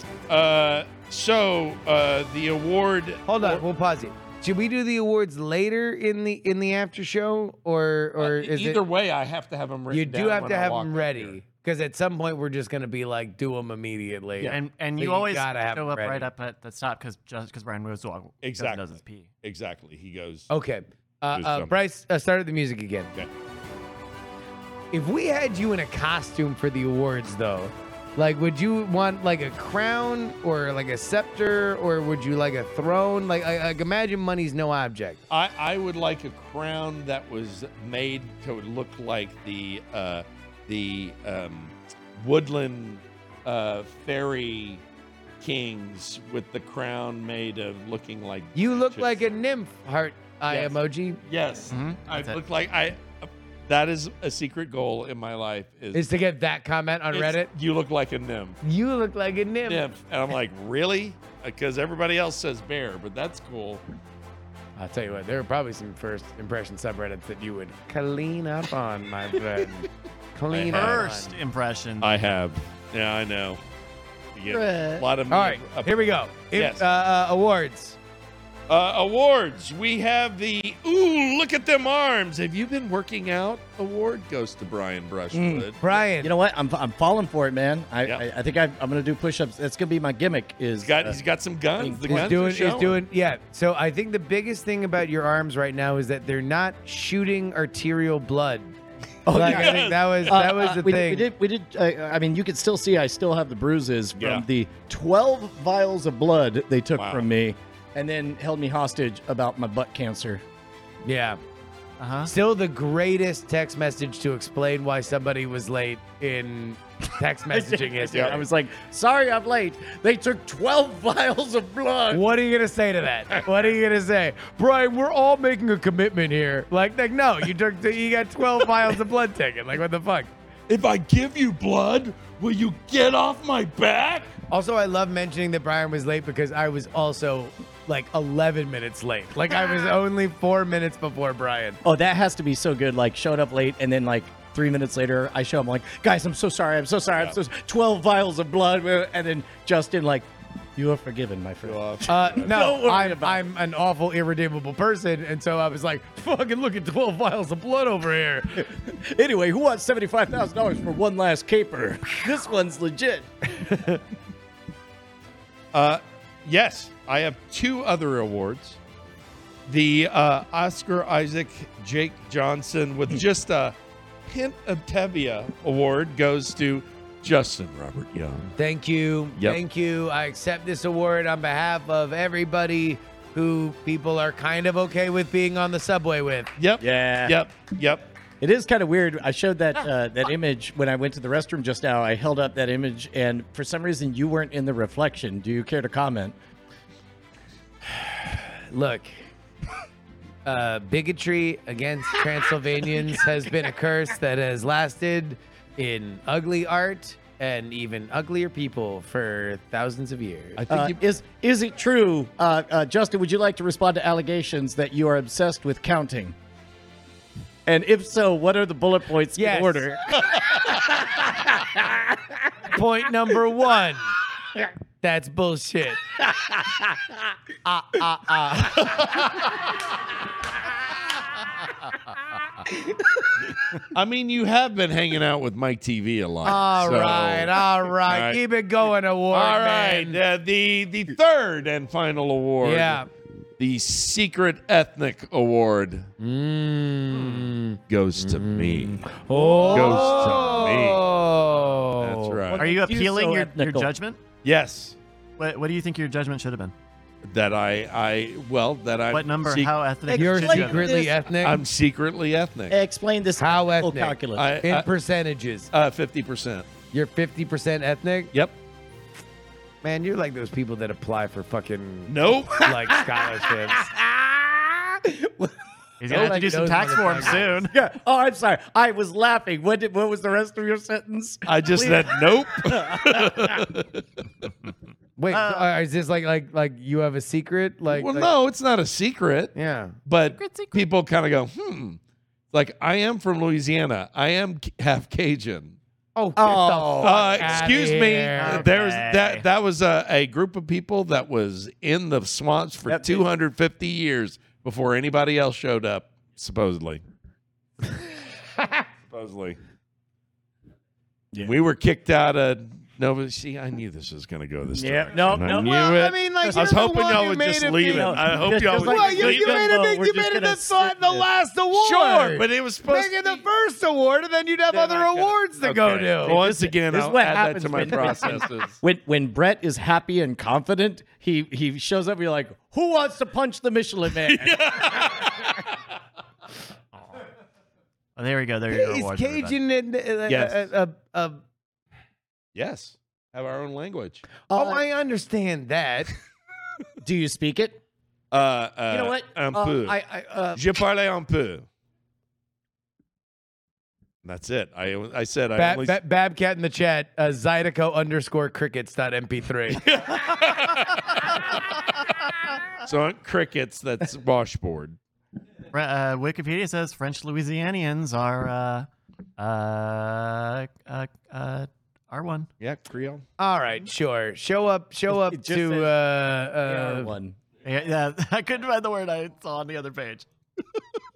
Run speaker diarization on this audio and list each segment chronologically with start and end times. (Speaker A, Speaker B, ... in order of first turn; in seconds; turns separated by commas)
Speaker A: 0.3-3.6, Speaker B: 3.3-8.8, Speaker A: 8.2-11.4, Speaker B: 9.9-16.3, Speaker C: 14.4-19.3, Speaker A: 18.4-20.5, Speaker B: 20.5-23.1, Speaker A: 21.3-21.7, Speaker B: 24.9-35.2, Speaker A: 35.3-44.8, Speaker A: 45.4-49.2, Speaker B: 48.5-51.2, Speaker A: 50.5-50.8, Speaker A: 51.3-56.1, Speaker C: 51.7-52.4, Speaker B: 55.9-57.5, Speaker A: 57.1-58.6, Speaker B: 58.6-59.9, Speaker A: 59.7-63.8, Speaker B: 64.8-71.3, Speaker A: 70.5-71.1, Speaker C: 70.7-72.1, Speaker A: 72.0-73.6, Speaker A: 74.3-76.8, Speaker C: 74.5-75.1, Speaker B: 75.3-78.0, Speaker A: 78.7-85.8, Speaker D: 85.3-91.2, Speaker B: 85.8-86.3, Speaker A: 90.8-93.0, Speaker D: 91.8-92.4, Speaker B: 92.1-98.7, Speaker D: 99.3-110.4, Speaker B: 99.3-101.3, Speaker A: 99.4-100.4, Speaker A: 104.2-104.5, Speaker A: 107.0-107.3, Speaker B: 111.0-111.4, Speaker C: 112.0-112.3, Speaker B: 112.2-118.5, Speaker D: 117.5-122.3, Speaker A: 118.1-118.4, Speaker B: 122.1-130.3, Speaker A: 130.7-134.3, Speaker B: 134.5-141.8, Speaker D: 141.8-153.5, Speaker A: 147.1-147.4, Speaker A: 151.6-152.7, Speaker B: 152.1-158.7, Speaker D: 158.6-163.3, Speaker A: 165.7-168.8, Speaker A: 169.7-173.8, Speaker A: 174.3-178.5, Speaker B: 178.5-186.5, Speaker A: 186.6-188.1, Speaker D: 186.8-187.4, Speaker D: 188.4-196.4, Speaker B: 198.7-199.1, Speaker B: 200.4-210.7, Speaker A: 210.6-211.0, Speaker D: 210.7-216.4, Speaker D: 217.7-220.1, Speaker B: 219.4-220.3, Speaker B: 222.6-224.2, Speaker B: 225.0-226.5, Speaker B: 227.6-229.4, Speaker B: 232.7-233.0, Speaker A: 233.9-238.4, Speaker B: 236.4-240.2, Speaker A: 239.3-243.0, Speaker B: 242.6-243.1, Speaker A: 243.6-246.1, Speaker B: 246.2-252.4, Speaker A: 247.2-251.0, Speaker A: 252.0-252.7, Speaker D: 252.5-253.9, Speaker C: 252.6-254.2, Speaker A: 254.4-255.0, Speaker C: 255.4-256.7, Speaker A: 257.2-259.8, Speaker C: 259.1-261.1, Speaker D: 260.1-261.1, Speaker B: 260.1-261.6, Speaker A: 260.7-262.8, Speaker D: 262.7-264.5, Speaker B: 263.4-265.7, Speaker A: 264.3-264.9, Speaker A: 265.7-266.7, Speaker B: 266.9-268.3, Speaker B: 269.8-274.0, Speaker A: 272.1-272.9, Speaker C: 276.0-277.7, Speaker B: 276.1-277.6, Speaker D: 276.2-276.6, Speaker D: 277.7-283.5, Speaker A: 281.5-284.5, Speaker B: 285.2-288.3, Speaker C: 285.3-285.8, Speaker A: 287.9-289.5, Speaker B: 289.6-290.0, Speaker A: 290.1-292.0, Speaker C: 290.3-290.8, Speaker A: 292.5-295.8, Speaker B: 296.1-298.7, Speaker D: 296.4-297.7, Speaker A: 297.0-307.0, Speaker C: 298.4-299.5, Speaker D: 302.9-303.2, Speaker A: 309.1-309.6, Speaker A: 311.4-319.7, Speaker D: 314.7-316.8, Speaker B: 315.5-326.4, Speaker D: 317.9-321.3, Speaker A: 321.7-323.4, Speaker A: 324.7-328.8, Speaker D: 326.2-334.7, Speaker A: 334.2-335.7, Speaker C: 338.2-339.6, Speaker B: 338.7-341.4, Speaker A: 340.3-340.7, Speaker A: 342.6-344.2, Speaker D: 344.5-344.8, Speaker B: 344.5-346.1, Speaker D: 347.0-347.8, Speaker A: 348.3-350.0, Speaker D: 348.9-350.6, Speaker A: 350.6-351.7, Speaker A: 354.2-355.9, Speaker B: 355.6-359.8, Speaker A: 359.8-361.4, Speaker A: 362.8-365.0, Speaker C: 365.7-372.5, Speaker A: 372.6-373.2, Speaker B: 373.4-377.1, Speaker D: 375.1-377.4, Speaker C: 377.6-380.3